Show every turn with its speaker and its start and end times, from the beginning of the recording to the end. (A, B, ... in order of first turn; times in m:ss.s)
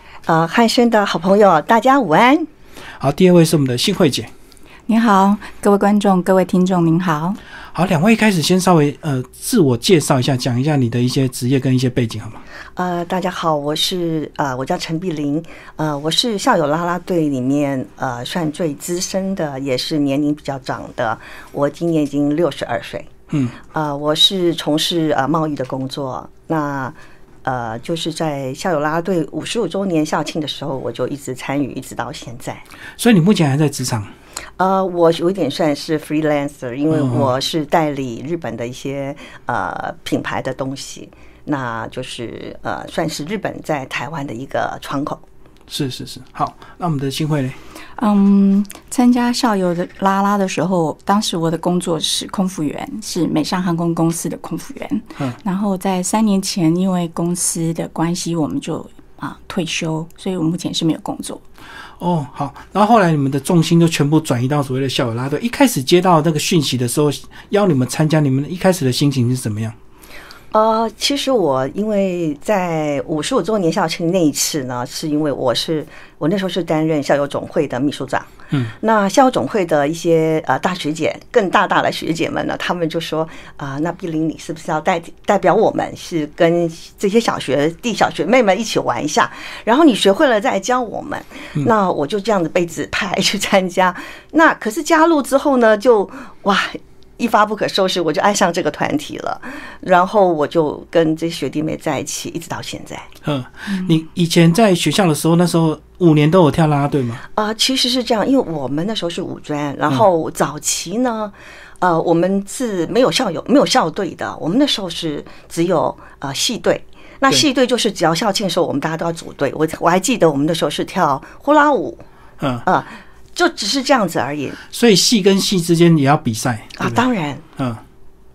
0:00.2-0:02.5 A
0:03.0-0:04.3 B
0:04.9-0:07.4 C
0:07.7-0:12.4 B
0:12.8-0:23.1 A
0:23.3-0:23.6 B
0:23.6-0:32.6 A
0:33.0-0:34.1 B
0:34.6-0:45.2 A
0:36.9-0:37.3 B
0:45.7-0:47.6 B
0:48.0-1:01.4 C
1:02.0-1:09.7 B
1:10.5-1:43.1 A
1:43.2-1:47.2 B
1:47.3-2:02.0 A
2:02.4-2:02.6 B
2:02.6-2:04.6 A
2:04.7-2:07.0 B
2:06.8-2:07.4 A
2:07.6-2:07.8 B